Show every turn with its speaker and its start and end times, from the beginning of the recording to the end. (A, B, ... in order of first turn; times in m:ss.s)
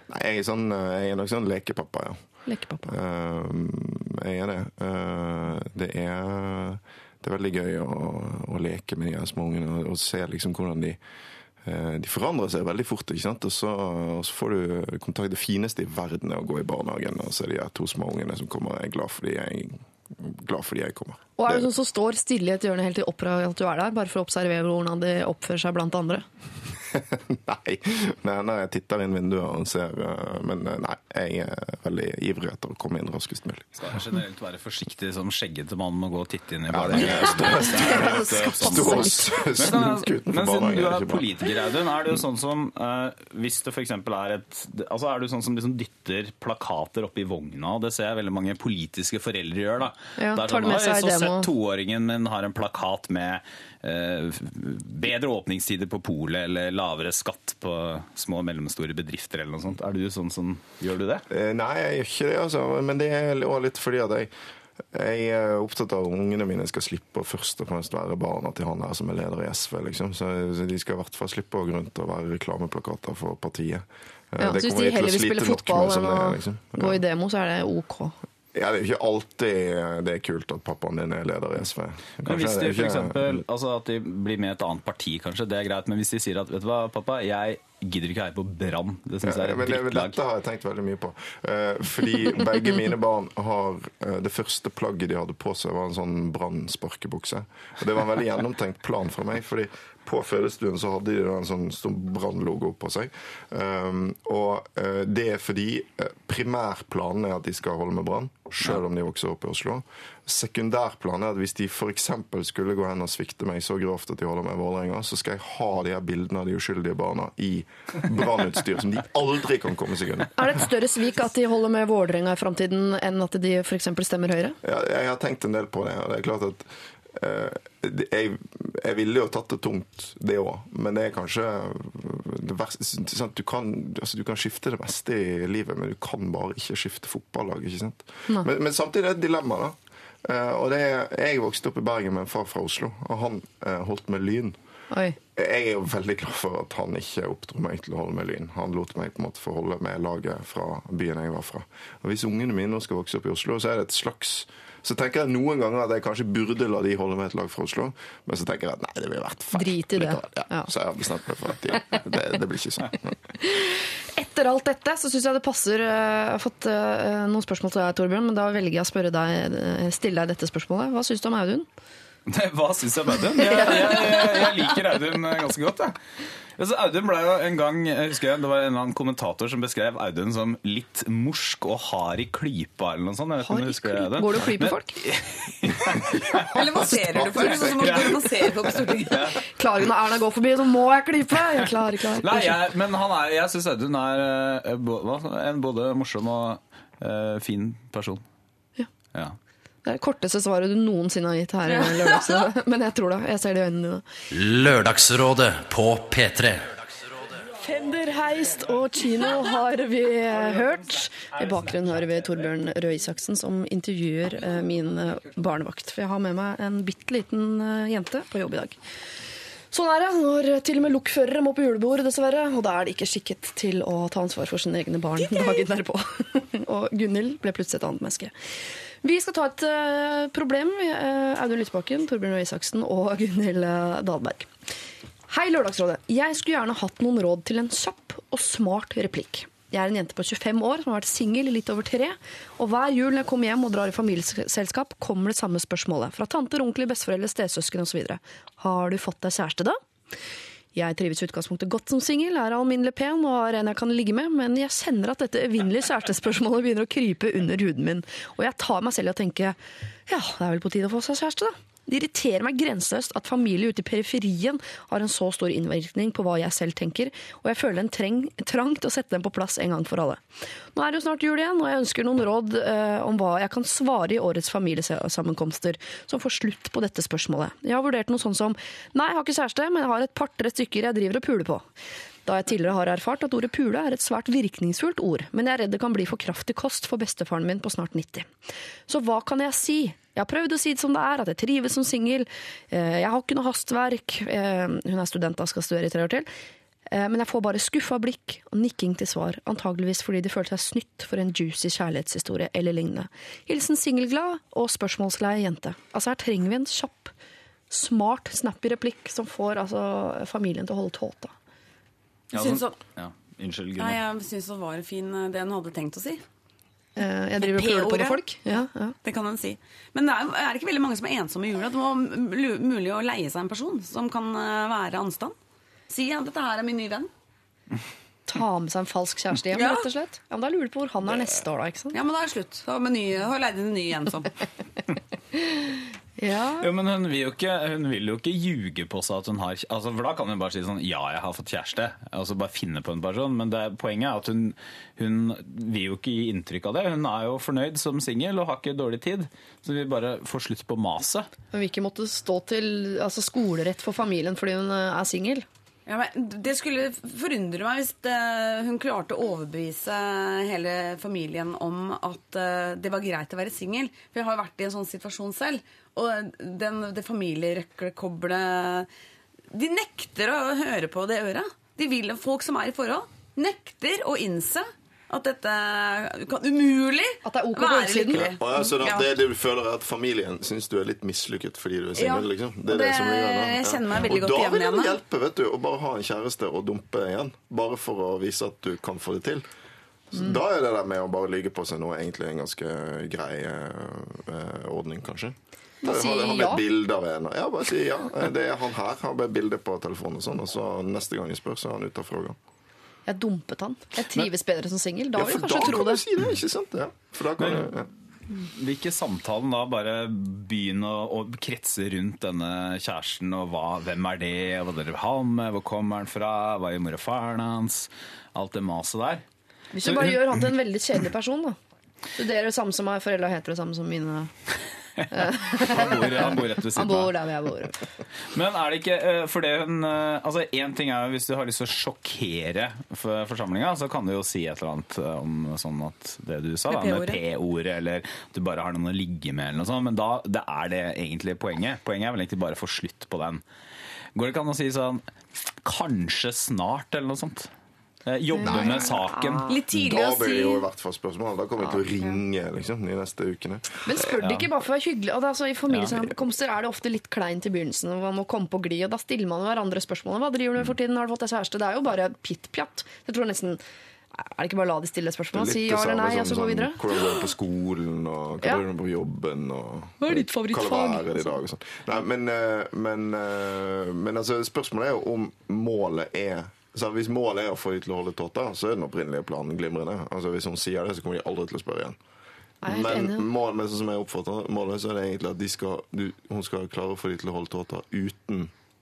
0:00.1-0:02.2 A
0:02.5-0:02.9 B
0:02.9-0:11.0 A
0:11.6-0:21.7 A
0:21.4-0:26.2 B
0:26.9-0:34.0 A
0:33.8-1:01.2 C
0:36.7-0:41.3 A
0:37.0-0:39.4 B
0:50.2-0:51.5 B
1:01.3-1:04.3 A
1:04.9-1:17.0 A
1:14.4-1:18.2 B
1:18.5-1:23.4 A
1:22.2-1:30.2 C
1:29.2-2:00.6 A
2:00.4-2:04.6 B
2:04.6-2:24.6 A
2:24.9-2:25.2 B
2:25.4-2:43.2 A
2:39.6-2:40.7 B
2:43.4-2:51.7 B
2:52.3-2:56.0 C
2:53.4-2:54.5 B
2:56.6-3:09.4 C
3:03.4-3:05.0 B
3:06.4-3:09.3 D
3:07.4-3:07.9 A
3:09.5-3:12.6 B
3:12.2-3:18.2 C
3:19.8-3:24.0 B
3:21.7-3:22.5 D
3:24.3-3:27.4 E
3:27.5-3:38.8 B
3:31.2-3:32.5 C
3:39.7-3:48.3 B
3:49.0-3:54.5 B
3:55.3-4:09.8 B
4:10.7-4:19.6 B
4:20.1-4:30.2 B
4:30.8-4:41.6 B
4:42.2-4:48.3 B
4:48.9-4:56.3 B
4:56.9-5:07.1 B
5:07.7-5:11.3 B
5:12.3-5:14.0 C
5:12.4-5:12.8 D
5:13.8-5:16.2 D
5:17.0-5:19.0 B
5:17.4-5:18.3 D
5:19.0-5:25.4 D
5:25.9-5:27.1 D
5:28.3-5:32.0 B
5:29.5-5:29.8 D
5:31.9-5:34.4 D
5:36.2-5:36.7 B
5:36.6-5:51.3 C
5:51.5-5:55.4 B
5:55.9-6:08.9 D
6:09.5-6:19.1 D
6:17.2-6:18.3 B
6:18.1-6:29.4 A
6:22.0-6:25.0 D
6:30.1-6:42.4 A
6:35.8-6:36.6 B
6:43.1-6:46.0 B
6:45.2-6:47.9 A
6:47.4-6:47.8 C
6:48.3-6:59.2 C
6:59.7-7:01.6 B
6:59.9-7:00.4 C
7:02.2-7:04.3 B
7:05.1-7:07.8 B
7:05.3-7:07.2 C
7:08.3-7:23.4 C
7:16.7-7:17.2 D
7:24.2-7:27.5 C
7:28.0-7:29.4 C
7:28.3-7:29.6 B
7:28.5-7:28.8 A
7:29.5-7:30.6 D
7:29.7-7:34.1 A
7:33.8-7:43.6 B
7:44.1-7:46.8 B
7:45.3-8:02.0 A
7:50.0-7:51.3 B
8:02.6-8:03.3 B
8:02.6-8:08.5 A